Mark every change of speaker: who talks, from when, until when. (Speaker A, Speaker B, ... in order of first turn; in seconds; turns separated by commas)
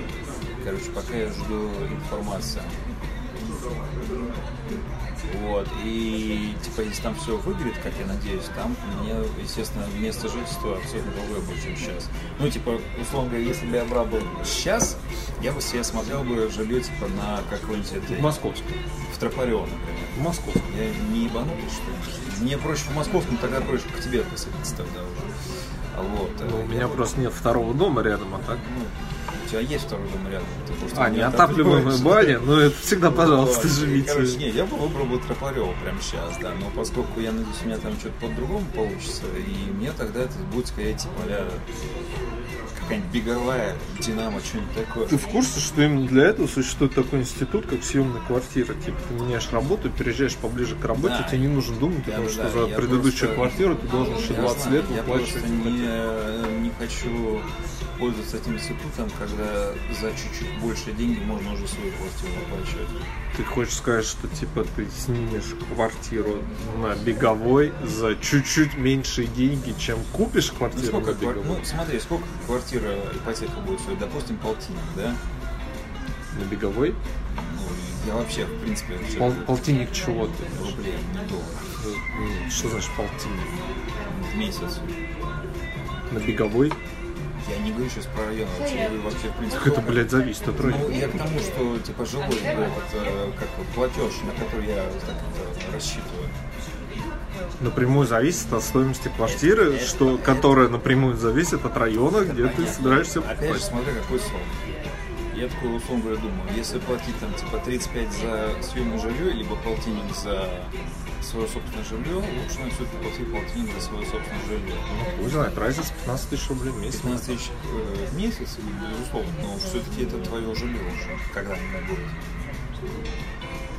Speaker A: 0.6-2.8, Speaker A: 5.3-18.3, Speaker B: 18.1-18.8, Speaker A: 19.1-25.3, Speaker B: 20.2-20.7, Speaker A: 25.9-27.2, Speaker B: 26.4-28.6, Speaker A: 28.6-41.6, Speaker B: 30.9-34.4, Speaker A: 42.7-45.4, Speaker B: 45.1-55.9, Speaker A: 51.0-62.9, Speaker B: 63.3-71.6, Speaker A: 70.7-75.2, Speaker B: 76.3-77.0, Speaker A: 77.3-79.8, Speaker B: 79.2-80.8, Speaker A: 80.5-81.7, Speaker B: 81.8-83.6, Speaker A: 84.1-84.9, Speaker B: 86.1-86.8, Speaker A: 87.4-96.3, Speaker B: 89.5-91.2, Speaker B: 97.6-103.7, Speaker A: 99.3-100.6, Speaker A: 102.2-104.6, Speaker A: 105.3-115.1, Speaker B: 114.9-117.3, Speaker A: 116.9-122.2